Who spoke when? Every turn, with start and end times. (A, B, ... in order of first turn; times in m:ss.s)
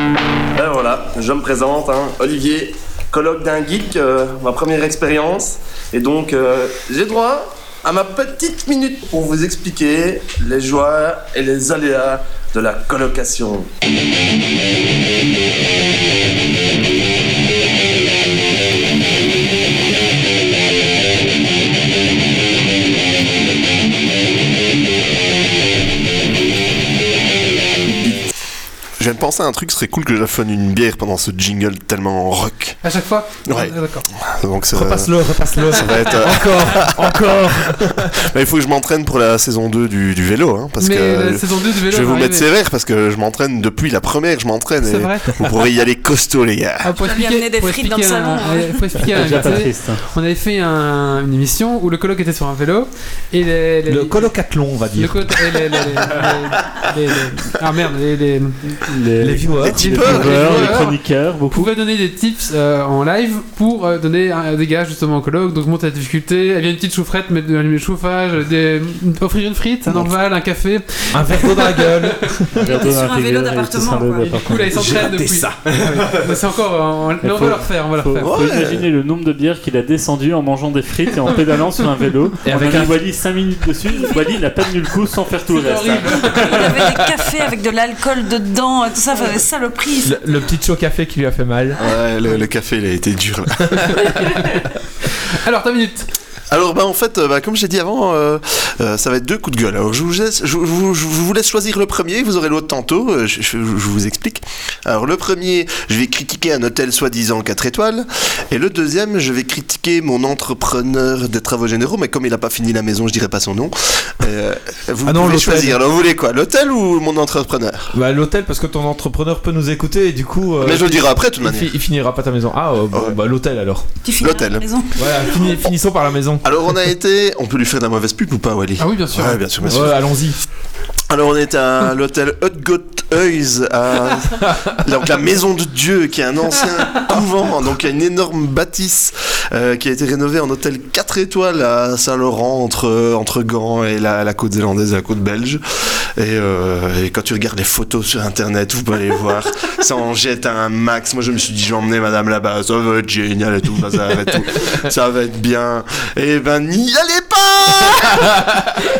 0:00.5-0:13.7 A
0:29.0-0:32.8 B
0:32.8-0:34.1 C
0:33.4-0:46.9 B
0:34.7-0:38.2 D
0:40.8-0:42.5 C
0:44.8-0:45.4 C
0:46.8-0:54.3 C
0:47.0-0:48.8 E
0:49.0-0:50.0 F
0:53.9-0:56.0 D
0:54.9-0:58.8 C
0:58.9-1:01.7 F
0:59.2-1:00.0 D
0:59.6-1:00.8 B
0:59.8-1:01.0 C
1:01.5-1:12.2 C
1:11.1-1:12.6 D
1:12.6-1:15.0 F
1:12.6-1:14.2 E
1:14.2-1:18.3 C
1:17.2-1:26.9 F
1:18.2-1:18.8 B
1:22.4-1:23.0 D
1:25.5-1:26.6 C
1:26.3-1:30.2 E
1:30.0-1:31.8 D
1:31.8-1:34.1 B
1:33.7-1:34.1 D
1:34.0-1:34.6 C
1:35.3-1:36.1 C
1:36.5-1:57.9 B
1:55.0-1:55.8 D
1:57.9-2:03.9 D
2:00.6-2:01.7 B
2:04.0-2:05.6 E
2:04.2-2:04.6 B
2:05.0-2:06.5 D
2:06.4-2:10.0 B
2:08.8-2:09.4 C
2:09.6-2:10.4 D
2:11.1-2:38.4 B
2:38.3-2:38.6 D